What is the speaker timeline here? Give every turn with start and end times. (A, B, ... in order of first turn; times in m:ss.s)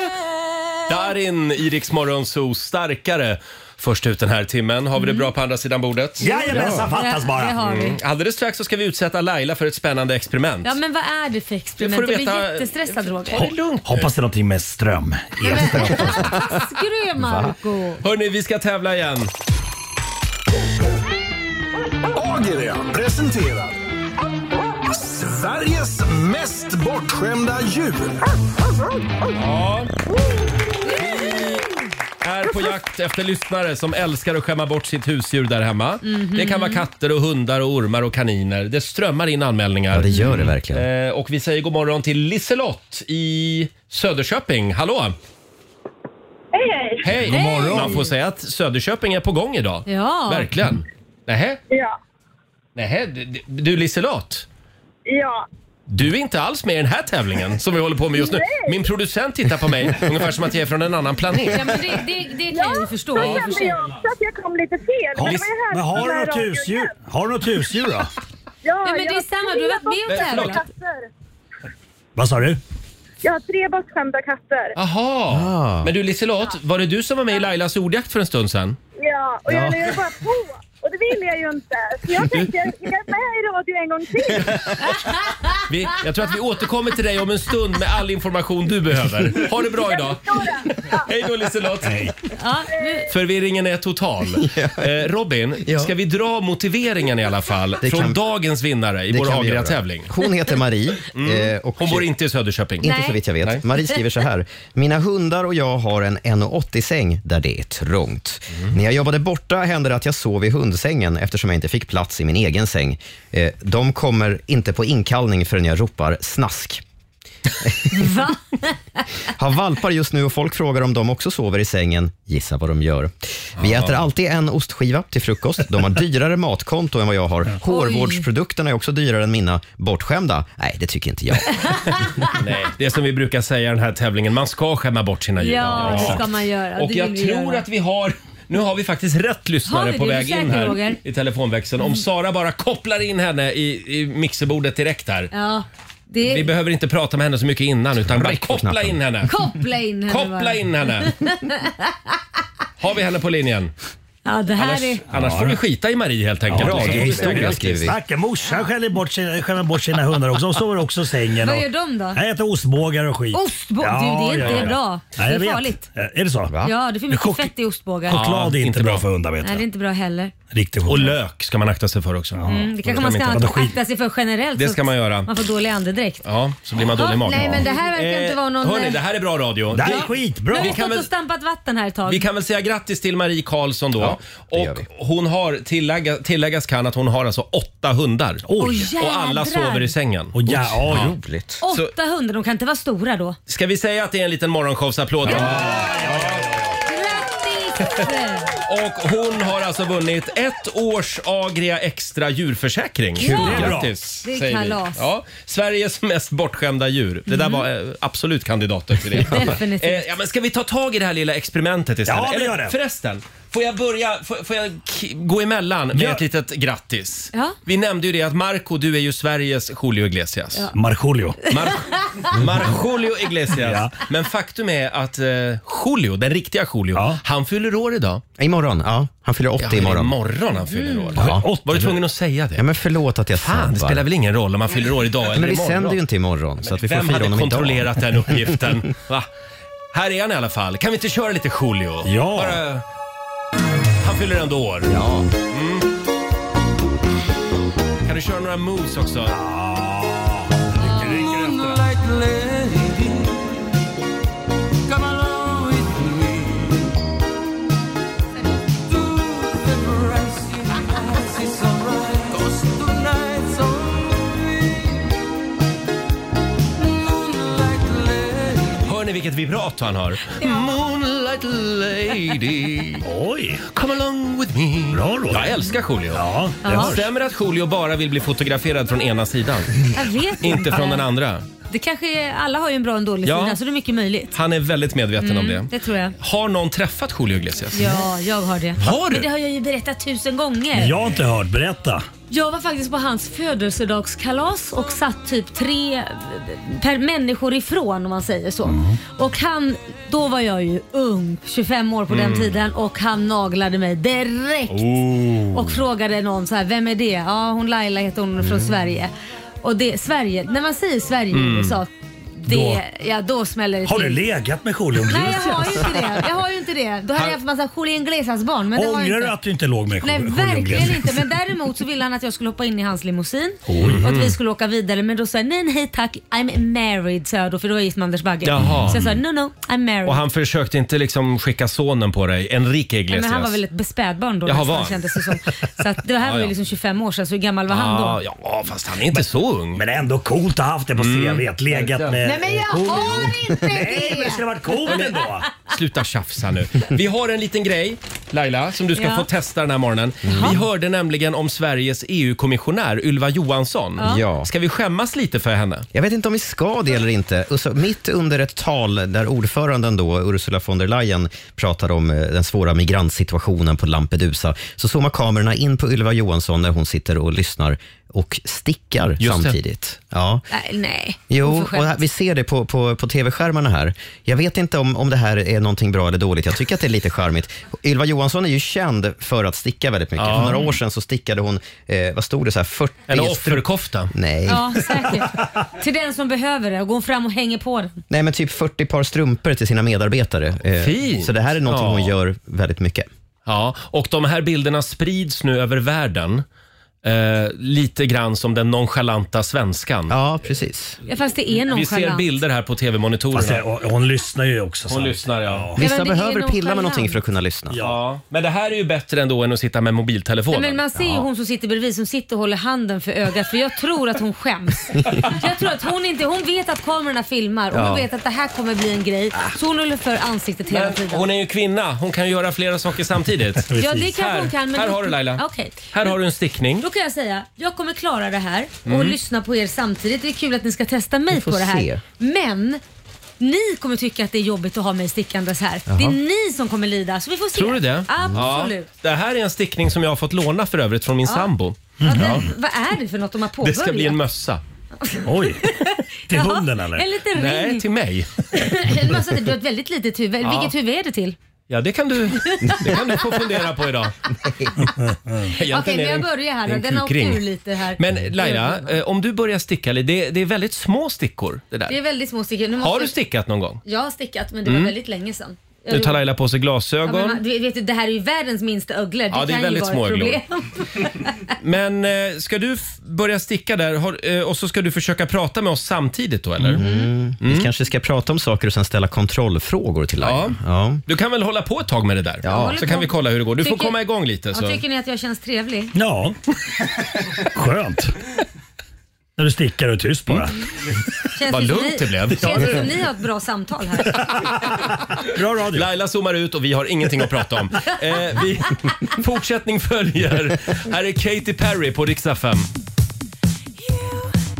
0:00.9-0:06.3 A
0:05.0-0:05.3 B
0:06.2-0:07.6 C
0:06.2-0:08.0 B
0:06.5-0:06.9 D
0:07.6-0:10.7 A
0:10.6-0:13.5 B
0:11.8-0:14.1 A
0:13.8-0:16.4 C
0:15.4-0:18.0 B
0:15.6-0:16.6 D
0:17.2-0:17.5 D
0:18.0-0:19.3 A
0:22.1-0:23.8 E
0:24.9-0:28.3 E
0:29.3-0:29.9 A
0:30.8-0:31.3 B
0:30.9-0:31.7 A
0:32.2-0:45.2 A
0:36.0-0:36.8 B
0:39.9-0:40.9 D
0:46.5-0:47.1 F
0:47.0-0:51.6 A
0:47.2-0:48.0 C
0:47.2-0:48.0 B
0:49.8-0:50.5 B
0:51.7-0:51.9 F
0:52.7-0:54.4 A
0:55.1-0:55.4 F
0:55.9-1:01.9 A
0:58.2-0:58.8 F
1:01.5-1:03.8 B
1:02.5-1:06.9 F
1:03.2-1:03.7 A
1:05.2-1:08.1 C
1:08.6-1:11.1 F
1:08.8-1:10.6 B
1:10.1-1:10.6 A
1:12.2-1:12.6 C
1:13.2-1:14.7 F
1:14.8-1:18.8 A
1:15.3-1:15.9 D
1:19.0-1:24.8 F
1:19.5-1:20.0 D
1:22.2-1:22.5 A
1:25.7-1:32.0 A
1:29.7-1:31.0 F
1:31.8-1:32.1 C
1:32.4-1:33.1 B
1:33.1-1:40.1 A
1:34.4-1:34.9 D
1:35.6-1:35.9 D
1:37.8-1:38.2 D
1:39.1-1:42.1 D
1:41.1-1:42.9 A
1:42.8-1:56.8 D
1:42.8-1:43.2 B
1:57.6-1:57.9 D
1:57.9-1:58.7 B
1:59.3-2:11.7 D
2:03.6-2:04.0 A
2:07.6-2:08.2 B
2:11.6-2:12.2 B
2:12.2-2:16.2 A
2:15.4-2:17.6 B
2:15.6-2:16.2 D
2:16.8-2:25.3 A
2:19.7-2:21.0 B
2:25.3-2:26.5 B
2:26.2-2:29.3 A
2:28.0-2:29.0 D
2:29.2-2:31.9 B
2:30.1-2:31.1 A
2:32.8-2:33.7 A
2:34.2-2:35.0 B
2:34.6-2:37.9 A
2:35.1-2:35.6 C
2:36.5-2:46.5 C
2:36.5-2:38.0 D
2:41.4-2:42.2 B
2:43.3-2:45.8 B
2:44.4-2:44.7 A
2:46.6-2:48.2 B
2:47.1-2:47.5 C
2:48.1-2:49.6 C
2:48.1-2:49.0 A
2:49.4-2:50.3 B
2:50.5-2:51.2 C
2:50.8-2:53.4 A
2:52.3-2:53.7 C
2:52.5-2:56.2 B
2:54.6-2:55.3 A
2:56.2-3:01.1 A
2:56.8-2:59.0 B
2:59.7-3:00.8 C
2:59.8-3:02.2 B
3:02.1-3:11.1 A
3:04.0-3:04.9 D
3:08.5-3:08.9 C
3:08.6-3:09.9 B
3:10.3-3:11.1 C
3:10.5-3:11.6 D
3:11.6-3:13.4 B
3:13.5-3:16.4 A
3:15.2-3:16.8 C
3:16.8-3:18.5 B
3:18.6-3:40.6 A
3:23.2-3:25.0 B
3:23.2-3:23.9 C
3:27.3-3:27.6 B
3:29.2-3:30.0 B
3:32.1-3:32.8 C
3:35.9-3:36.2 C
3:40.7-3:41.4 C
3:41.5-3:48.2 A
3:43.5-3:43.9 C
3:46.9-3:47.2 C
3:48.4-3:50.2 D
3:49.6-3:52.6 A
3:50.6-3:51.1 B
3:51.1-3:51.5 D
3:51.2-3:52.0 C
3:52.6-3:54.0 D
3:53.4-3:56.0 A
3:55.2-3:58.4 D
3:56.6-3:59.3 A
3:59.9-4:02.8 A
4:02.0-4:02.6 C
4:04.0-4:05.9 A
4:04.9-4:05.3 D
4:08.0-4:09.3 A
4:09.3-4:11.8 C
4:10.8-4:13.6 G
4:14.9-4:16.9 G
4:18.8-4:25.0 G
4:26.8-4:28.9 G
4:28.8-4:33.0 A
4:33.0-4:33.6 C
4:33.7-4:39.8 A
4:34.9-4:37.0 C
4:36.6-4:37.0 B
4:39.9-4:41.1 B
4:40.4-4:41.4 A
4:41.7-4:44.4 B
4:43.2-4:43.6 A
4:44.3-4:48.0 A
4:45.2-4:46.1 B
4:47.7-4:50.9 B
4:48.8-4:49.3 A
4:50.7-4:52.0 C
4:52.3-5:04.8 B
4:58.6-4:59.0 C
5:02.1-5:02.6 A
5:04.7-5:05.7 A
5:05.5-5:14.2 B
5:08.4-5:08.7 D
5:11.3-5:11.8 A
5:12.5-5:12.8 C
5:13.8-5:16.1 C
5:15.0-5:19.3 B
5:18.7-5:21.2 C
5:20.0-5:30.2 B
5:23.7-5:24.0 C
5:23.8-5:24.3 A
5:28.4-5:29.0 A
5:30.0-5:33.6 A
5:33.1-5:38.2 B
5:34.4-5:35.0 A
5:36.2-5:36.5 A
5:37.7-5:39.8 A
5:39.8-5:45.5 C
5:41.0-5:42.2 A
5:42.2-5:45.0 B
5:44.9-5:55.8 A
5:49.0-5:49.3 B
5:50.2-5:50.6 D
5:54.0-5:54.5 D
5:55.9-6:10.4 D
6:09.2-6:09.6 A
6:10.5-6:12.0 B
6:11.3-6:25.1 D
6:20.2-6:20.6 A
6:23.1-6:24.1 A
6:24.5-6:28.0 B
6:28.1-6:33.1 D
6:30.8-6:32.1 A
6:33.4-6:36.4 A
6:37.0-6:40.2 A
6:40.1-6:41.0 D
6:41.1-6:42.2 B
6:41.7-6:43.6 A
6:43.3-6:45.8 C
6:44.9-6:45.7 A
6:45.8-6:47.9 D
6:45.8-6:47.1 B
6:47.7-6:48.0 C
6:47.8-6:51.2 A
6:50.5-7:01.2 B
6:57.7-6:58.0 D
7:00.7-7:06.8 A
7:03.6-7:04.1 C
7:03.8-7:06.1 B
7:06.8-7:12.8 B
7:08.8-7:09.2 A
7:11.3-7:12.0 D
7:13.4-7:18.9 B
7:15.9-7:16.2 D
7:17.5-7:21.8 A
7:22.0-7:22.5 C
7:22.0-7:24.2 B
7:23.6-7:24.6 A
7:25.0-7:27.8 B
7:25.2-7:25.6 C
7:26.3-7:27.0 C
7:27.3-7:28.3 A
7:28.5-7:31.4 B
7:30.4-7:30.7 A
7:31.7-7:34.2 A
7:32.5-7:32.9 B
7:34.8-7:35.5 C
7:35.5-7:37.4 A
7:35.6-7:39.0 B
7:38.0-7:42.0 A
7:41.9-7:43.1 B
7:42.8-7:43.8 A
7:43.8-7:46.2 B
7:44.6-7:44.9 A
7:45.9-7:47.4 A
7:47.0-7:51.3 B
7:49.3-7:50.4 A
7:51.6-7:56.8 A
7:56.6-8:01.0 D
7:56.8-7:57.1 B
7:57.4-7:57.7 A
8:00.2-8:04.8 A
8:02.4-8:02.8 D
8:02.5-8:04.0 B
8:04.5-8:05.9 B
8:05.9-8:06.4 C
8:07.4-8:08.2 C
8:09.4-8:10.6 C
8:11.3-8:14.2 B
8:11.5-8:12.8 A
8:12.4-8:12.8 C
8:15.2-8:15.8 C
8:15.7-8:22.7 A
8:23.7-8:24.4 G